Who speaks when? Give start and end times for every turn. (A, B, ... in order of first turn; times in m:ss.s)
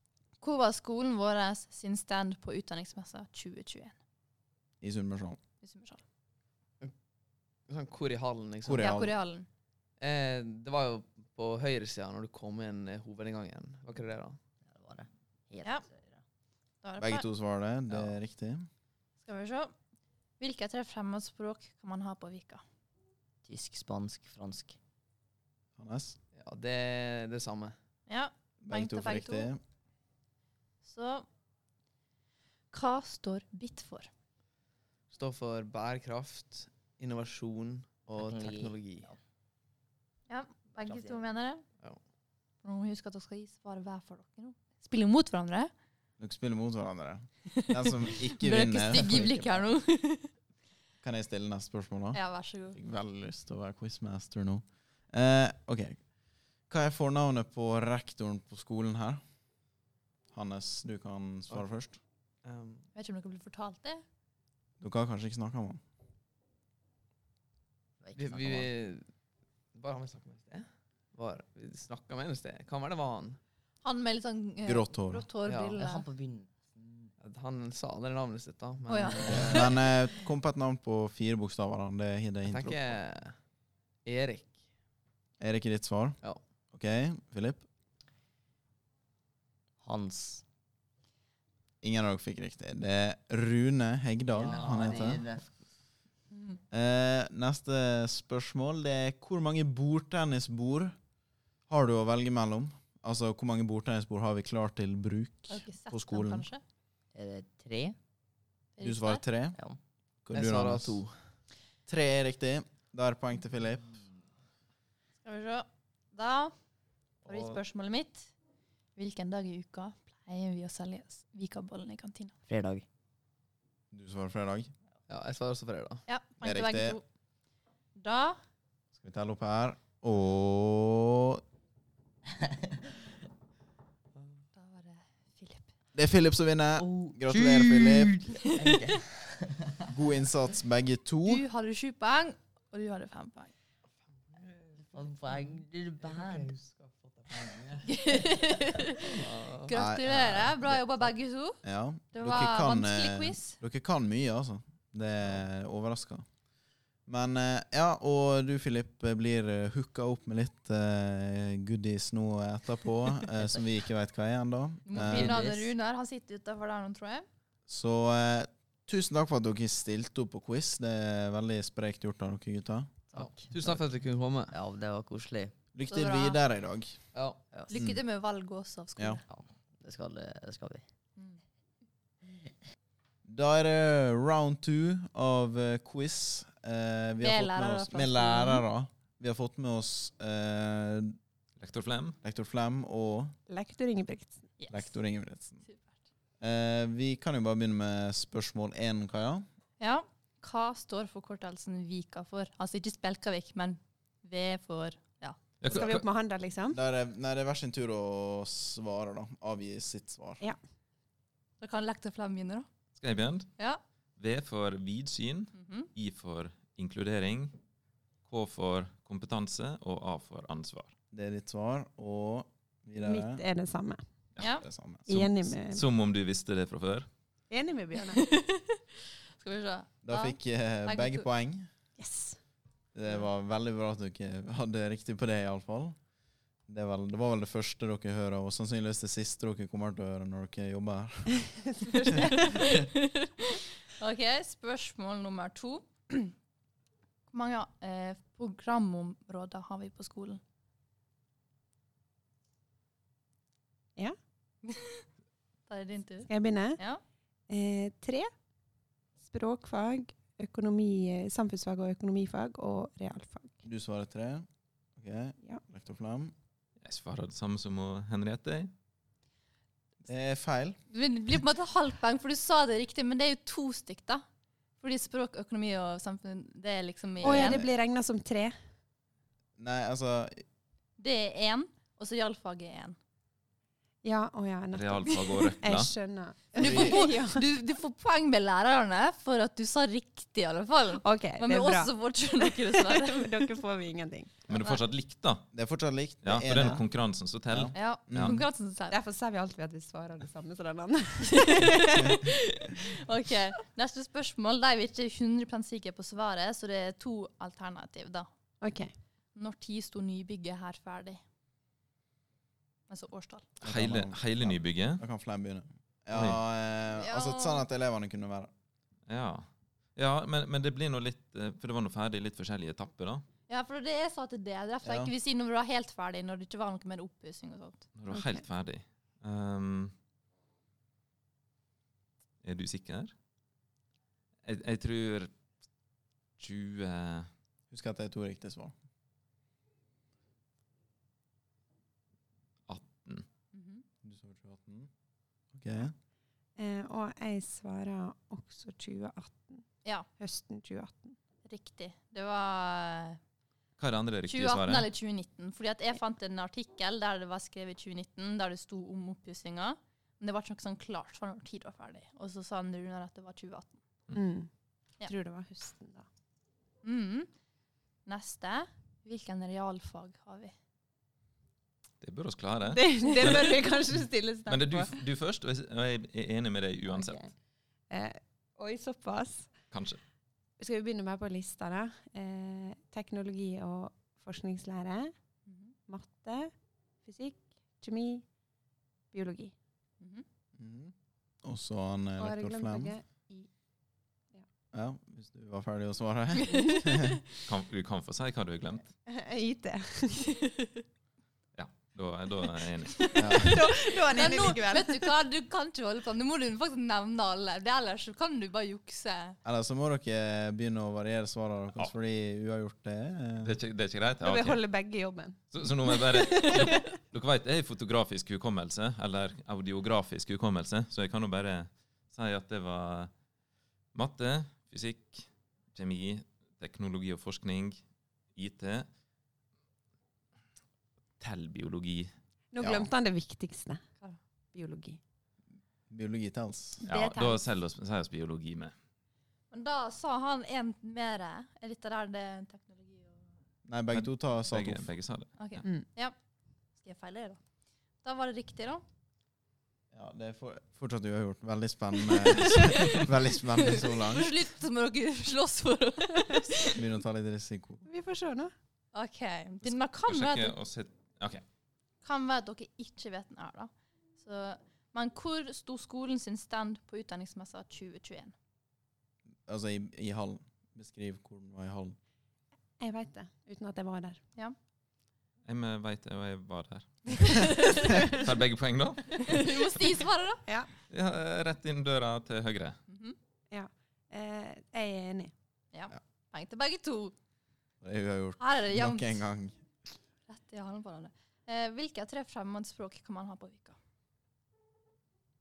0:00.4-0:04.0 A
0:04.8-0:05.4 B
0:05.6-0:06.0 A
0:07.7-0:08.9 C
0:08.6-0:09.1 B
0:08.8-0:09.5 A
0:10.0-0:14.4 C
0:14.6-0:16.2 D
0:16.8-0:17.2 A
0:17.0-0:18.7 B
0:19.2-0:19.7 A
0:20.4-0:22.6 A
0:23.4-0:24.8 D
0:25.8-0:26.2 B
0:26.4-0:27.8 C
0:28.1-0:29.5 A
0:28.6-0:29.6 B
0:30.8-0:31.3 A
0:32.7-0:34.1 A
0:35.1-0:39.1 C
0:38.2-0:39.2 D
0:40.3-0:41.6 A
0:40.8-0:41.2 D
0:42.6-0:45.7 A
0:46.2-0:49.7 B
0:48.1-0:50.3 A
0:51.0-0:52.2 B
0:52.1-0:52.8 A
0:52.7-0:56.1 B
0:56.7-0:59.2 B
1:00.3-1:02.0 B
1:02.4-1:02.9 C
1:03.0-1:04.0 A
1:04.8-1:05.8 B
1:08.0-1:08.7 D
1:08.2-1:09.1 C
1:09.7-1:13.4 C
1:13.8-1:16.0 A
1:14.6-1:15.2 B
1:15.4-1:15.8 C
1:15.8-1:17.1 D
1:17.2-1:19.8 C
1:18.9-1:19.7 A
1:19.3-1:23.0 B
1:22.5-1:23.4 C
1:24.0-1:24.6 C
1:25.4-1:26.2 B
1:26.7-1:27.7 B
1:29.8-1:30.4 D
1:31.8-1:35.2 B
1:34.3-1:35.5 D
1:34.4-1:35.2 C
1:36.3-1:36.6 A
1:36.7-1:41.0 B
1:41.7-1:46.5 B
1:45.5-1:46.6 A
1:47.1-1:48.0 D
1:48.8-1:49.2 A
1:48.8-1:49.6 B
1:50.2-1:51.0 B
1:50.3-1:51.2 C
1:51.9-1:54.0 B
1:55.2-1:56.5 A
1:57.2-1:58.3 A
1:57.3-1:57.6 C
1:59.0-2:02.4 A
2:02.5-2:02.9 D
2:03.9-2:04.7 B
2:05.1-2:06.1 C
2:06.1-2:07.0 A
2:06.4-2:07.0 B
2:08.0-2:08.4 A
2:09.0-2:11.4 B
2:12.4-2:12.8 D
2:14.6-2:15.7 A
2:16.0-2:18.2 B
2:17.4-2:19.8 D
2:19.9-2:21.4 B
2:21.3-2:23.5 A
2:24.2-2:27.9 C
2:24.8-2:26.6 D
2:27.9-2:31.6 A
2:29.2-2:29.7 C
2:29.7-2:30.8 B
2:31.6-2:36.3 B
2:32.1-2:33.6 A
2:37.1-2:45.4 B
2:43.4-2:43.6 D
2:44.9-2:47.3 A
2:44.9-2:45.7 D
2:47.7-2:53.0 B
2:53.1-2:53.8 D
2:53.2-2:54.6 C
2:54.5-2:55.5 D
2:55.7-2:57.0 B
2:55.9-2:56.4 A
2:57.1-2:57.4 C
2:57.7-2:59.2 A
2:57.7-2:58.0 B
2:59.3-3:00.9 D
3:03.3-3:11.2 B
3:07.2-3:08.6 A
3:11.6-3:12.2 E
3:12.2-3:13.4 B
3:13.5-3:14.5 F
3:14.6-3:14.9 A
3:14.7-3:15.6 B
3:16.4-3:19.5 B
3:19.8-3:25.4 A
3:25.6-3:26.1 E
3:25.7-3:26.8 F
3:26.7-3:30.4 B
3:31.6-3:32.7 A
3:33.0-3:33.5 E
3:34.2-3:37.6 E
3:35.6-3:35.9 A
3:38.2-3:40.9 E
3:41.1-3:43.4 B
3:43.0-3:44.0 F
3:44.4-3:44.6 A
3:44.6-3:45.2 B
3:45.1-3:45.8 F
3:45.1-3:47.1 E
3:47.5-3:48.2 F
3:48.1-3:48.8 A
3:49.4-3:51.3 A
3:50.0-3:51.7 B
3:52.0-3:52.4 F
3:53.0-3:56.0 B
3:56.7-4:01.5 B
4:01.8-4:02.5 F
4:02.1-4:06.3 A
4:07.3-4:10.4 A
4:14.6-4:15.0 A
4:15.7-4:17.0 A
4:16.3-4:16.8 F
4:17.5-4:18.3 F
4:19.2-4:23.6 F
4:23.6-4:26.3 B
4:26.8-4:28.7 E
4:30.1-4:30.8 B
4:30.9-4:34.2 A
4:34.8-4:37.6 A
4:37.2-4:37.7 B
4:37.2-4:38.6 F
4:39.6-4:40.4 B
4:41.0-4:43.0 A
4:44.0-4:47.4 F
4:44.7-4:45.9 E
4:46.6-4:53.4 A
4:46.6-4:47.0 B
4:51.0-4:54.5 F
4:54.5-4:55.5 E
4:55.5-4:56.8 B
4:56.2-4:58.4 E
4:57.5-4:58.4 B
4:57.7-4:59.0 A
4:58.9-5:02.2 F
5:01.4-5:08.3 A
5:08.6-5:08.9 F
5:09.4-5:11.2 A
5:12.9-5:13.5 A
5:13.6-5:18.5 B
5:13.6-5:15.0 E
5:16.1-5:16.4 E
5:17.0-5:17.6 A
5:19.1-5:23.2 E
5:23.5-5:27.9 A
5:24.8-5:25.1 B
5:28.0-5:29.9 E
5:28.1-5:28.4 F
5:32.4-5:33.1 E
5:34.4-5:35.3 E
5:36.4-5:37.3 E
5:37.7-5:38.7 B
5:42.7-5:43.3 E
5:43.5-5:43.8 A
5:44.0-5:44.9 B
5:45.5-5:45.9 B
5:46.6-5:49.6 F
5:50.2-5:51.2 F
5:51.4-5:53.2 A
5:53.8-5:54.9 E
5:54.3-6:03.8 A
6:04.1-6:04.5 F
6:05.0-6:06.1 F
6:06.8-6:07.3 A
6:08.1-6:10.5 A
6:12.0-6:17.2 E
6:12.7-6:15.0 F
6:16.9-6:17.3 F
6:17.9-6:19.5 F
6:19.7-6:20.0 E
6:20.6-6:25.1 F
6:25.5-6:25.7 A
6:25.9-6:26.5 F
6:27.0-6:28.2 F
6:29.1-6:29.5 F
6:30.0-6:30.2 A
6:30.6-6:30.9 B
6:31.4-6:32.9 B
6:32.2-6:33.5 F
6:34.7-6:37.2 B
6:36.5-6:37.2 A
6:37.4-6:38.9 E
6:39.1-6:40.4 F
6:41.6-6:43.5 E
6:43.2-6:43.6 B
6:43.3-6:45.1 F
6:44.1-6:49.4 A
6:49.4-6:53.5 B
6:53.4-6:54.6 E
6:54.2-6:56.9 F
6:55.5-7:03.1 E
7:03.9-7:07.8 E
7:08.4-7:08.9 E
7:11.2-7:12.1 E
7:12.5-7:13.8 F
7:12.6-7:12.9 B
7:14.5-7:15.0 F
7:15.9-7:16.9 B
7:16.8-7:17.5 A
7:16.8-7:18.7 E
7:19.5-7:23.3 A
7:23.7-7:24.9 B
7:23.9-7:25.6 E
7:25.4-7:26.2 A
7:26.8-7:27.4 A
7:28.0-7:28.8 A
7:29.9-7:34.3 B
7:32.3-7:33.1 A
7:33.6-7:36.8 A
7:36.7-7:37.8 B
7:37.9-7:38.5 F
7:38.9-7:40.6 A
7:39.7-7:41.4 E
7:42.0-7:48.3 A
7:49.5-7:52.0 B
7:52.8-7:54.2 F
7:55.5-7:59.7 E
7:57.2-7:57.9 A
7:57.8-7:58.2 F
7:59.2-8:00.4 A
8:00.9-8:02.8 E
8:02.9-8:03.2 A
8:03.5-8:05.3 F
8:05.7-8:07.1 A
8:07.8-8:09.6 B
8:08.4-8:09.2 A
8:10.3-8:13.8 A